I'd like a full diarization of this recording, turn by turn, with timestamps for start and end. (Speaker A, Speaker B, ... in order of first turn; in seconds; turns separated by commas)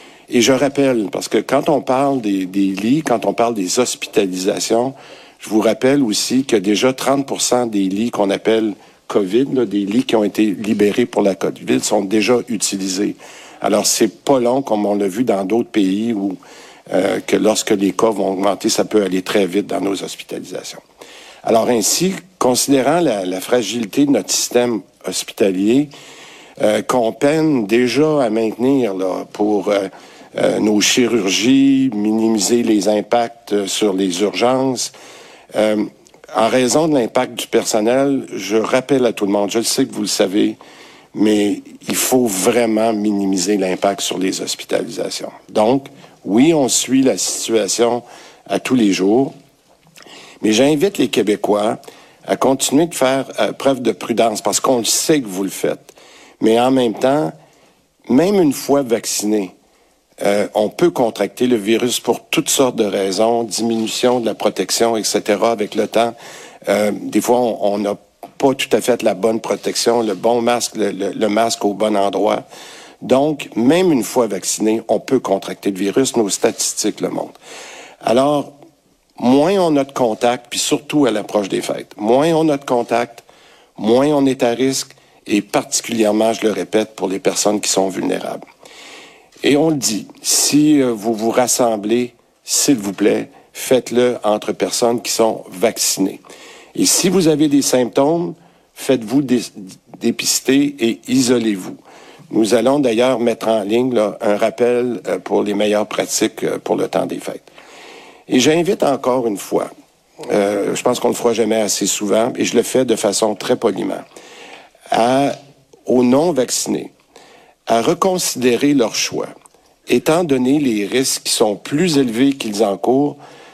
Speaker A: 0.3-16.4, Speaker A: 16.9-20.8, Speaker A: 21.4-25.9, Speaker A: 26.6-34.9, Speaker A: 35.5-40.6, Speaker A: 41.1-49.3, Speaker A: 50.4-57.3, Speaker A: 58.1-59.5, Speaker A: 60.2-66.1, Speaker A: 66.7-72.4, Speaker A: 73.0-77.4, Speaker A: 78.0-78.5, Speaker A: 79.2-83.2, Speaker A: 83.8-88.4, Speaker A: 89.4-96.2, Speaker A: 96.8-107.5, Speaker A: 108.3-109.7, Speaker A: 110.3-114.0, Speaker A: 114.9-115.3, Speaker A: 115.9-116.9, Speaker A: 117.7-119.3, Speaker A: 119.9-123.2